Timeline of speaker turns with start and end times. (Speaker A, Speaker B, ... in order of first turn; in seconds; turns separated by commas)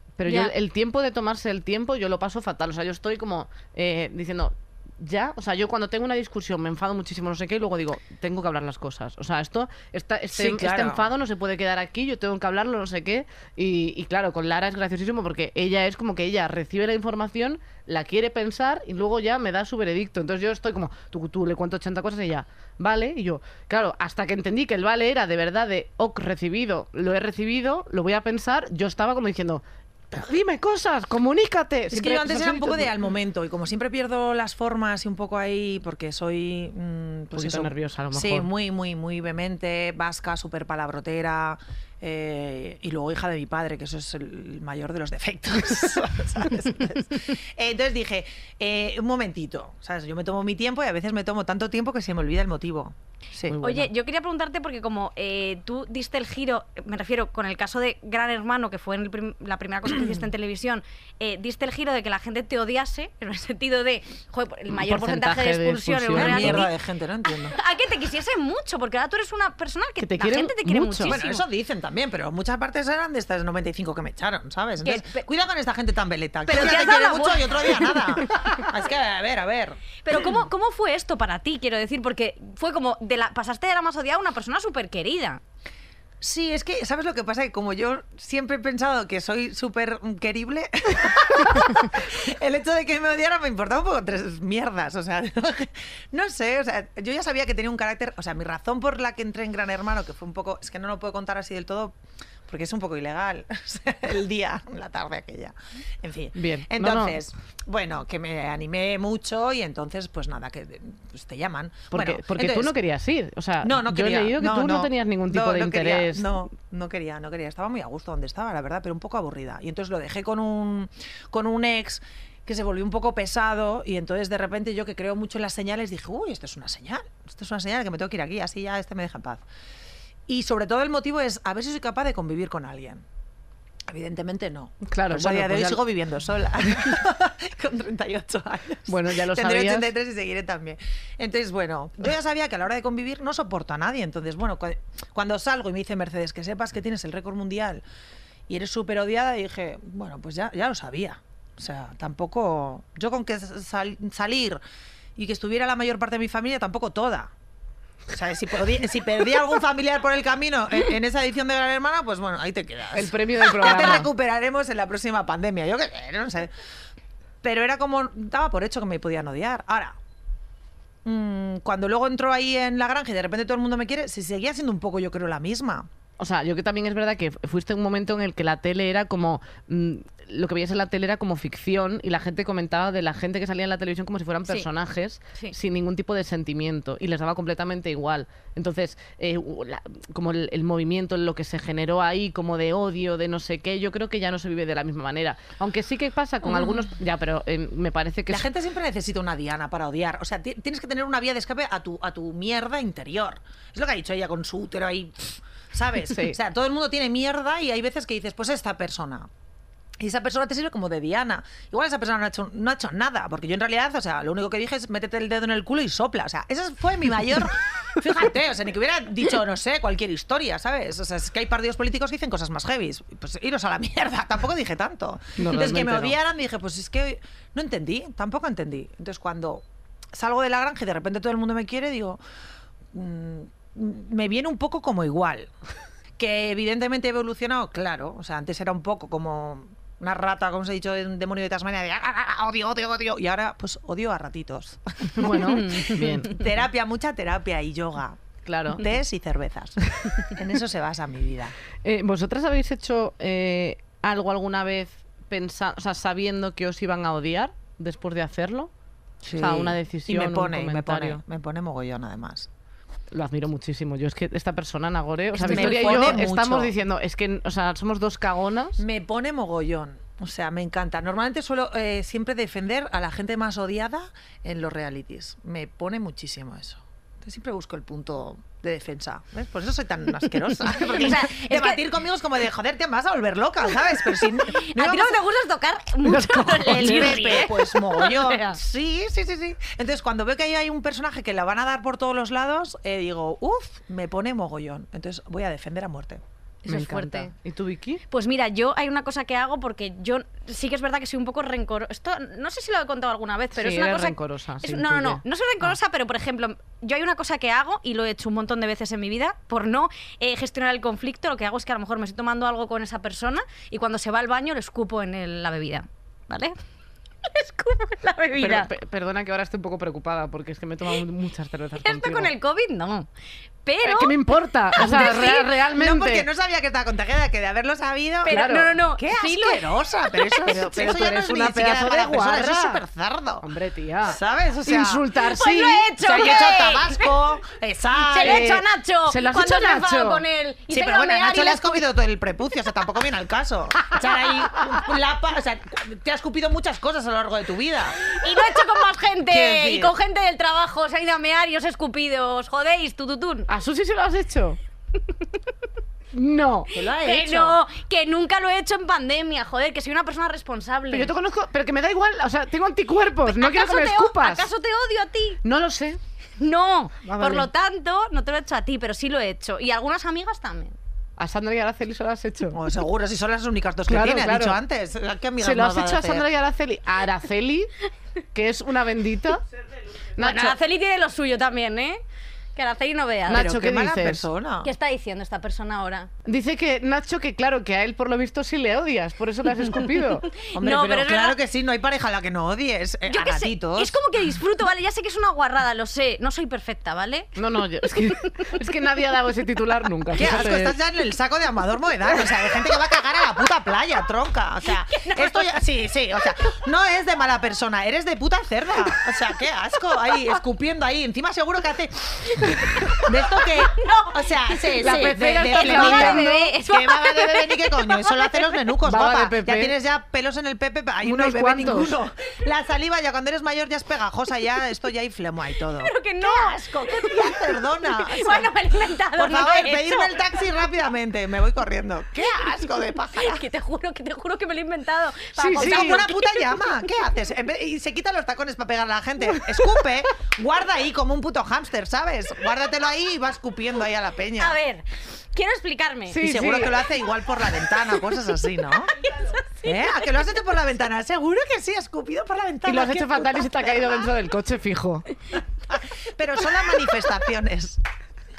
Speaker A: 0.2-32.9, Speaker B: 0.2-0.5, Speaker C: 10.3-11.1, Speaker C: 31.9-53.6, Speaker A: 37.3-38.5, Speaker A: 53.4-53.9, Speaker B: 53.6-66.7, Speaker A: 64.7-66.7, Speaker C: 66.1-67.6, Speaker B: 67.4-71.4, Speaker A: 70.0-71.2, Speaker C: 71.0-80.4, Speaker B: 74.8-75.3, Speaker B: 76.5-78.4, Speaker B: 80.0-85.4, Speaker C: 86.2-102.0, Speaker C: 102.5-112.7, Speaker A: 106.3-107.2, Speaker A: 111.9-116.5, Speaker C: 113.6-129.4, Speaker C: 130.3-133.0, Speaker C: 133.9-147.8, Speaker A: 134.8-135.8, Speaker A: 138.9-139.9, Speaker C: 148.5-154.6, Speaker C: 155.2-157.3, Speaker C: 158.1-166.5, Speaker A: 162.9-164.1, Speaker C: 167.4-170.0, Speaker C: 171.0-175.9, Speaker A: 176.2-198.5, Speaker C: 198.3-209.3, Speaker A: 206.1-206.4, Speaker C: 210.0-232.2, Speaker A: 225.4-226.2, Speaker C: 232.9-235.5, Speaker C: 236.2-248.2, Speaker A: 245.1-246.4, Speaker B: 245.4-245.9, Speaker A: 248.4-248.8, Speaker C: 248.7-251.5, Speaker A: 251.8-258.7, Speaker C: 259.2-262.5, Speaker A: 259.4-261.2, Speaker A: 263.1-268.8, Speaker C: 265.3-266.7, Speaker B: 265.4-266.1, Speaker C: 268.8-285.2, Speaker B: 280.6-281.8, Speaker B: 284.4-288.6, Speaker A: 286.0-287.4, Speaker C: 286.4-296.2, Speaker B: 296.6-297.3, Speaker A: 296.7-298.0, Speaker B: 298.1-316.6, Speaker A: 303.6-305.8, Speaker B: 317.2-318.7, Speaker A: 318.4-322.3, Speaker B: 321.8-323.1, Speaker B: 323.6-324.2, Speaker A: 323.8-326.3, Speaker B: 324.7-325.5, Speaker C: 324.8-333.4, Speaker B: 328.2-330.5, Speaker A: 328.3-328.8, Speaker A: 330.4-332.8, Speaker A: 333.4-335.9, Speaker C: 334.0-335.1, Speaker B: 335.2-337.1, Speaker C: 336.0-338.5, Speaker B: 338.1-341.9, Speaker A: 338.2-340.2, Speaker C: 340.7-348.2, Speaker B: 348.0-353.5, Speaker C: 349.2-349.9, Speaker A: 353.5-354.6, Speaker A: 356.1-356.7, Speaker C: 356.7-357.6, Speaker B: 356.9-361.1, Speaker A: 360.9-364.5, Speaker B: 363.2-365.4, Speaker A: 365.4-366.0, Speaker B: 366.4-370.8, Speaker A: 367.0-367.5, Speaker A: 371.2-372.6, Speaker C: 372.5-376.2, Speaker A: 373.9-374.6, Speaker A: 375.4-377.7, Speaker A: 378.3-379.4, Speaker A: 380.2-380.6, Speaker B: 380.2-382.0, Speaker B: 382.5-383.5, Speaker C: 383.3-384.7, Speaker A: 383.3-384.2, Speaker B: 384.6-386.1, Speaker A: 386.2-390.3, Speaker B: 389.7-391.4, Speaker C: 390.5-393.9, Speaker B: 393.1-398.6, Speaker A: 397.4-400.7, Speaker C: 400.1-412.3, Speaker B: 404.7-405.6, Speaker B: 412.3-418.7, Speaker C: 413.0-428.5, Speaker A: 414.8-416.5, Speaker A: 418.8-419.7, Speaker A: 421.0-421.9, Speaker B: 425.7-430.5, Speaker C: 429.1-433.4, Speaker B: 433.1-436.9, Speaker A: 435.4-436.0, Speaker C: 435.6-444.6, Speaker B: 444.4-446.2, Speaker A: 446.1-446.8, Speaker C: 446.2-448.9, Speaker B: 447.4-450.4, Speaker C: 449.6-454.0, Speaker A: 452.6-455.1, Speaker C: 455.7-457.8